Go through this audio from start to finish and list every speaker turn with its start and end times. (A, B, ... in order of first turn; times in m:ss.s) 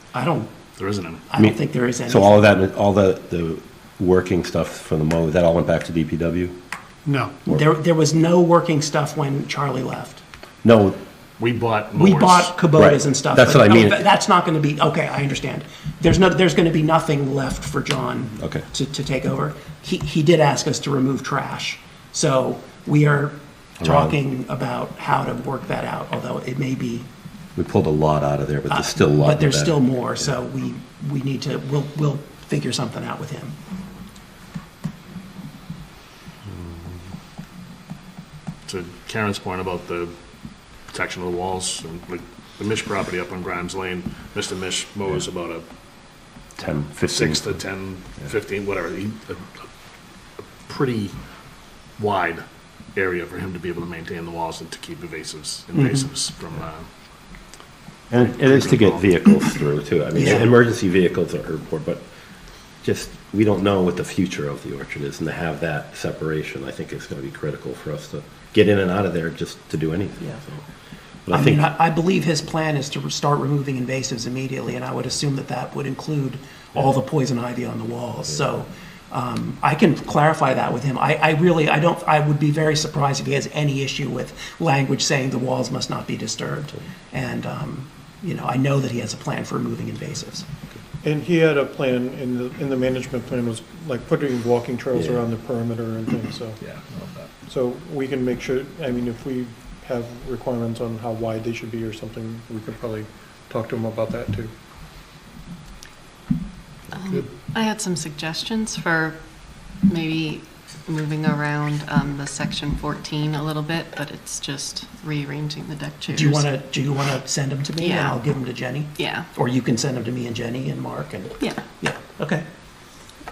0:00.1-0:00.5 A
0:00.8-0:01.2 B
0:01.3-0:02.4 A
0:01.4-0:06.6 C
0:07.1-0:07.3 D
0:07.4-0:10.2 A
0:10.6-0:11.0 C
0:11.4-0:12.5 B
0:11.9-0:27.1 A
0:12.8-0:14.1 C
0:18.4-0:18.6 C
0:23.8-0:24.2 C
0:27.6-0:30.3 C
0:28.7-0:33.6 A
0:38.7-0:40.1 B
0:40.9-0:45.6 B
0:46.6-0:47.6 C
0:47.1-0:49.7 B
0:50.4-0:51.1 B
0:52.0-0:52.4 B
0:52.9-0:56.8 B
0:55.7-0:56.1 A
0:58.1-1:02.0 C
0:58.2-0:59.0 B
1:00.1-1:00.5 A
1:02.8-1:10.6 C
1:11.2-1:11.7 C
1:11.3-1:30.5 A
1:31.0-1:36.6 D
1:36.6-1:37.3 B
1:37.5-1:44.5 D
1:46.9-1:49.2 E
1:49.8-1:56.5 E
1:56.1-2:02.4 A
1:57.8-1:58.2 E
1:59.0-1:59.3 E